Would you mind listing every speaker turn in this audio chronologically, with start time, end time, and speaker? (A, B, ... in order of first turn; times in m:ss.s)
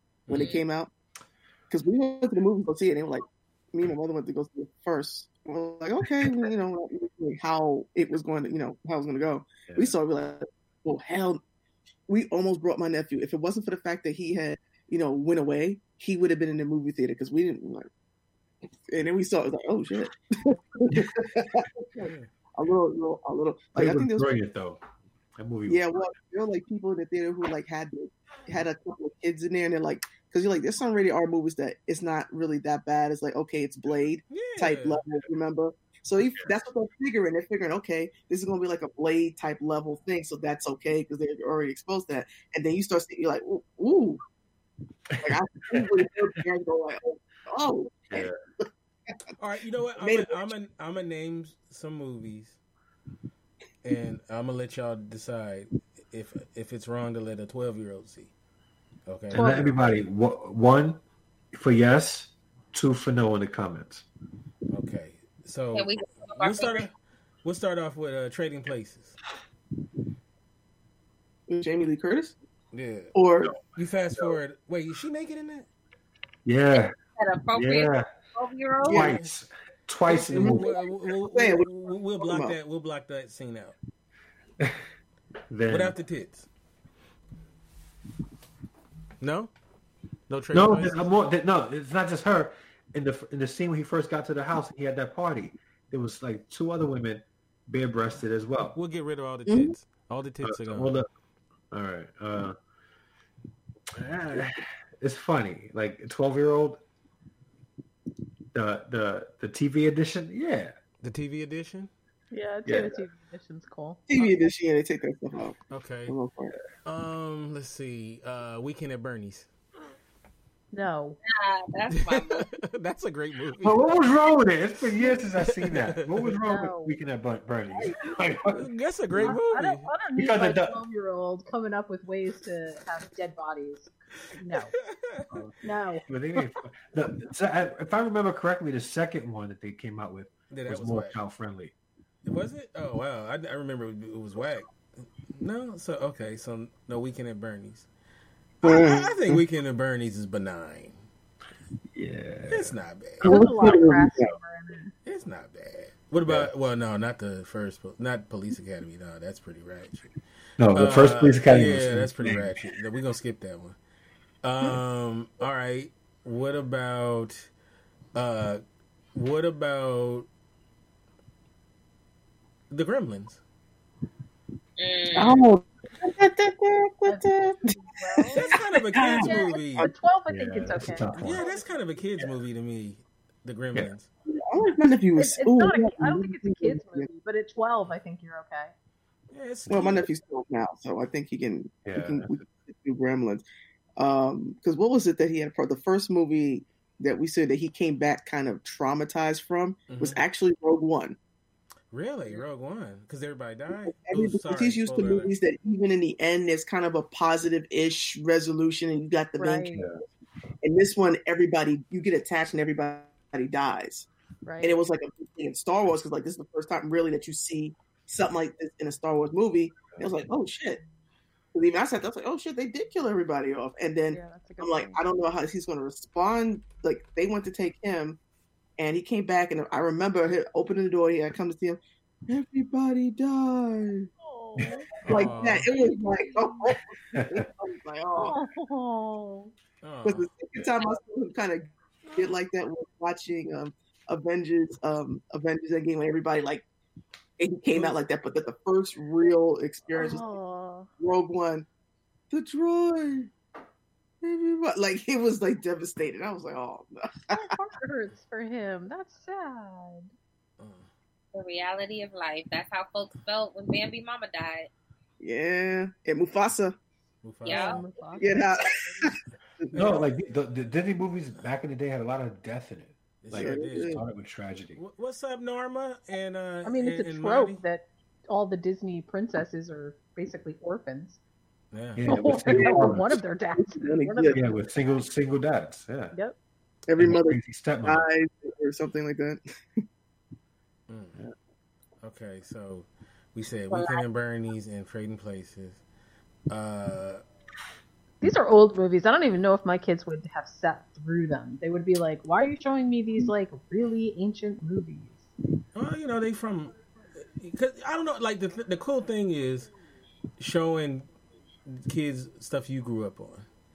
0:00.3-0:00.6 A
0:00.3-0:00.9 B
0:00.3-0:00.6 C
0:01.7-0:11.4 B
0:09.7-0:09.9 D
0:12.1-0:17.9 B
0:18.9-0:24.3 B
0:22.0-0:22.3 A
0:23.7-0:24.8 D
0:25.4-0:25.8 D
0:25.7-0:44.2 B
0:34.3-0:35.0 A
0:45.2-0:49.3 B
0:48.1-0:48.4 D
0:49.4-0:52.6 A
0:50.0-0:50.5 B
0:53.8-0:58.3 A
0:59.1-0:59.7 A
0:59.3-1:01.0 D
0:59.3-0:59.7 E
1:01.5-1:04.1 D
1:04.7-1:06.9 A
1:05.7-1:06.9 C
1:07.4-1:09.2 A
1:11.5-1:12.3 B
1:12.7-1:13.1 A
1:13.1-1:13.6 B
1:13.7-1:15.7 A
1:16.4-1:16.9 D
1:17.2-1:19.2 C
1:17.5-1:18.1 D
1:18.8-1:20.7 D
1:18.9-1:19.2 A
1:20.1-1:22.6 B
1:20.3-1:23.8 A
1:25.5-1:25.9 D
1:25.7-1:26.5 A
1:29.2-1:29.5 A
1:30.3-1:31.0 A
1:30.5-1:38.8 D
1:38.7-1:40.9 A
1:39.5-1:39.7 B
1:40.4-1:41.1 D
1:41.7-1:42.5 D
1:43.9-1:46.8 D
1:48.5-1:50.8 D
1:51.0-1:51.9 A
1:52.3-1:54.0 E
1:52.6-1:52.9 D
1:54.1-1:56.6 B
1:55.7-1:56.2 A
1:56.8-1:59.5 A
2:00.7-2:01.2 E
2:01.2-2:02.5 C
2:01.9-2:03.9 A
2:03.6-2:09.4 D
2:05.4-2:06.4 A
2:06.4-2:07.0 E
2:07.8-2:08.2 E
2:08.5-2:09.9 A
2:09.2-2:14.7 E
2:10.2-2:10.8 D
2:14.5-2:15.3 A
2:15.6-2:16.6 E
2:16.1-2:21.7 D
2:20.5-2:21.2 A
2:22.2-2:24.7 A
2:25.4-2:27.9 A
2:28.6-2:29.2 B
2:28.6-2:31.0 A
2:31.9-2:32.7 D
2:32.5-2:33.3 A
2:33.2-2:34.3 B
2:33.2-2:34.9 E
2:35.0-2:40.1 A
2:40.6-2:42.6 D
2:40.7-2:43.8 A
2:44.4-2:47.5 A
2:48.1-2:48.6 A
2:49.1-2:50.3 A
2:52.7-2:53.4 A
2:54.8-2:55.4 C
2:55.1-2:59.9 B
2:57.1-2:58.4 E
2:58.3-2:59.9 A
2:59.2-3:01.8 E
3:00.3-3:01.4 D
3:01.1-3:04.1 A
3:04.3-3:07.1 B
3:05.2-3:08.7 E
3:09.3-3:10.1 A
3:09.7-3:13.4 B
3:11.8-3:12.4 D
3:14.0-3:21.2 B
3:19.9-3:20.2 A
3:21.9-3:25.3 A
3:23.8-3:29.8 B
3:29.4-3:29.9 E
3:29.7-3:30.0 D
3:30.6-3:34.1 B
3:34.4-3:34.8 E
3:34.6-3:40.8 B
3:41.5-3:48.2 B
3:44.1-3:45.0 E
3:48.8-3:54.1 B
3:54.2-3:56.8 E
3:54.6-3:55.2 D
3:55.0-3:55.7 A
3:55.1-3:58.4 B
3:57.1-3:57.4 D
3:58.1-3:59.5 E
3:59.8-4:00.3 A
4:00.0-4:06.6 B
4:07.4-4:10.4 B
4:09.9-4:10.9 E
4:11.0-4:11.6 B
4:12.3-4:13.3 B
4:14.2-4:17.5 B
4:17.3-4:20.1 E
4:20.6-4:20.9 A
4:21.3-4:24.7 C
4:25.2-4:26.7 B
4:27.2-4:27.8 A
4:27.4-4:27.8 C
4:27.5-4:29.1 E
4:28.2-4:29.8 B
4:29.7-4:30.0 A
4:29.7-4:34.8 D
4:33.2-4:34.0 A
4:33.3-4:34.0 B
4:34.7-4:37.6 A
4:36.6-4:41.2 E
4:41.7-4:42.0 A
4:42.0-4:43.1 D
4:42.0-4:44.4 E
4:42.1-4:44.5 B
4:44.3-4:46.1 D
4:46.9-4:49.8 B
4:47.0-4:48.0 D
4:50.9-4:51.2 A
4:52.0-4:55.8 A
4:53.7-4:54.0 C
4:56.5-4:57.2 A
4:58.2-5:05.3 E
5:05.7-5:09.7 A
5:10.4-5:11.1 A
5:11.6-5:13.4 A